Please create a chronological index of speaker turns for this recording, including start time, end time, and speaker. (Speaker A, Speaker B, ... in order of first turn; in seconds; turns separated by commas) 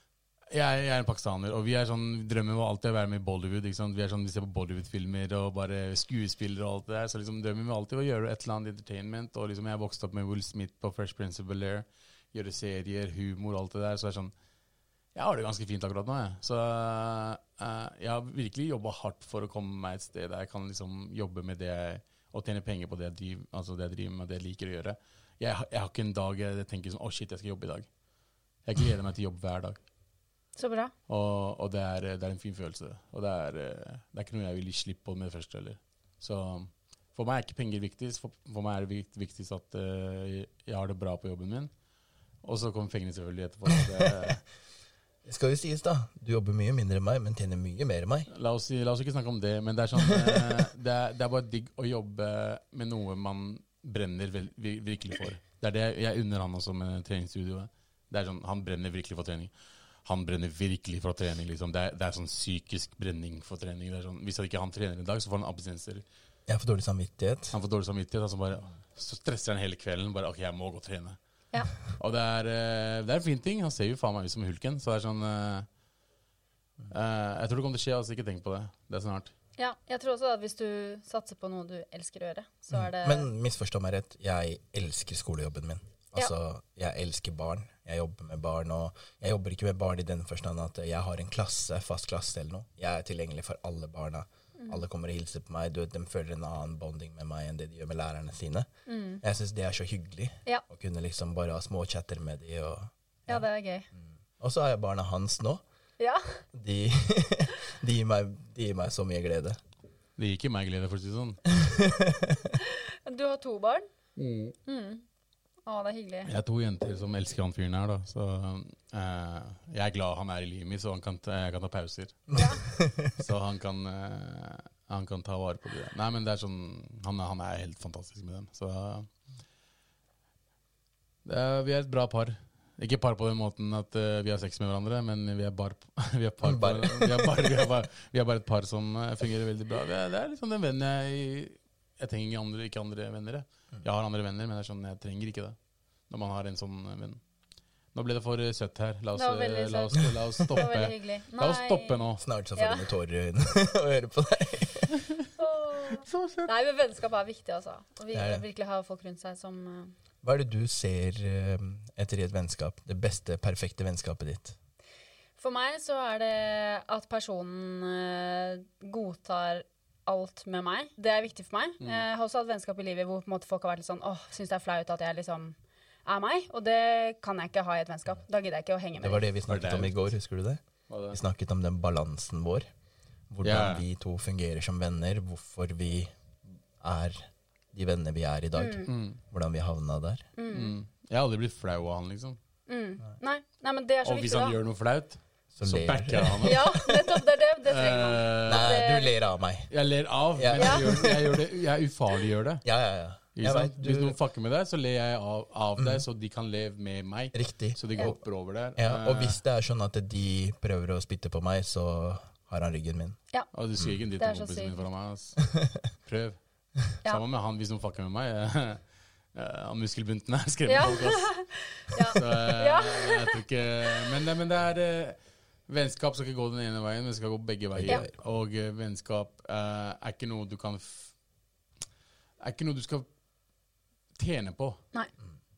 Speaker A: 0.5-14.3, Speaker A: 15.2-27.9, Speaker A: 28.6-29.8, Speaker B: 30.6-30.9, Speaker A: 31.1-41.7, Speaker A: 42.4-44.4, Speaker C: 43.9-44.3, Speaker C: 45.2-48.3, Speaker A: 48.3-59.5, Speaker C: 50.0-50.6, Speaker A: 60.1-66.0, Speaker C: 66.5-67.5, Speaker A: 67.5-71.2, Speaker A: 71.8-75.7, Speaker A: 76.9-79.3, Speaker B: 79.6-83.3, Speaker C: 82.7-98.7, Speaker B: 94.6-94.8, Speaker B: 98.9-99.2, Speaker C: 99.2-105.6, Speaker B: 103.3-103.9, Speaker B: 106.0-106.4, Speaker C: 106.5-109.6, Speaker A: 110.2-111.4, Speaker C: 111.5-112.5, Speaker B: 112.6-113.9, Speaker A: 114.2-114.5, Speaker B: 114.7-115.0, Speaker B: 115.7-116.3, Speaker A: 116.2-122.3, Speaker C: 122.3-123.1, Speaker B: 122.3-122.6, Speaker A: 123.2-129.1, Speaker A: 131.2-145.6, Speaker C: 136.4-137.3, Speaker A: 146.1-147.2, Speaker A: 147.9-152.2, Speaker B: 149.2-152.0, Speaker C: 152.2-155.0, Speaker B: 152.6-152.9, Speaker B: 155.4-159.9, Speaker A: 156.1-156.5, Speaker C: 158.1-158.4, Speaker C: 160.2-164.6, Speaker B: 165.4-179.2, Speaker C: 179.0-182.7, Speaker A: 179.5-180.0, Speaker A: 180.9-181.2, Speaker C: 183.3-186.1, Speaker A: 183.4-183.9, Speaker C: 186.8-190.3, Speaker B: 188.6-188.9, Speaker A: 188.9-189.2, Speaker B: 190.4-190.7, Speaker A: 190.5-192.4, Speaker B: 192.7-194.6, Speaker A: 194.0-197.0, Speaker C: 195.6-196.7, Speaker B: 196.4-199.1, Speaker A: 197.7-198.8, Speaker C: 198.4-199.7, Speaker A: 199.7-202.6, Speaker C: 200.3-201.4, Speaker B: 200.6-200.8, Speaker C: 202.6-204.2, Speaker A: 203.3-209.4, Speaker C: 205.8-206.1, Speaker C: 207.3-208.2, Speaker C: 208.8-213.2, Speaker A: 213.5-215.4, Speaker B: 214.2-214.8, Speaker C: 215.4-215.8, Speaker A: 216.0-221.5, Speaker B: 220.7-223.4, Speaker A: 222.1-231.1, Speaker C: 227.7-228.1, Speaker A: 232.4-233.1, Speaker A: 234.2-234.8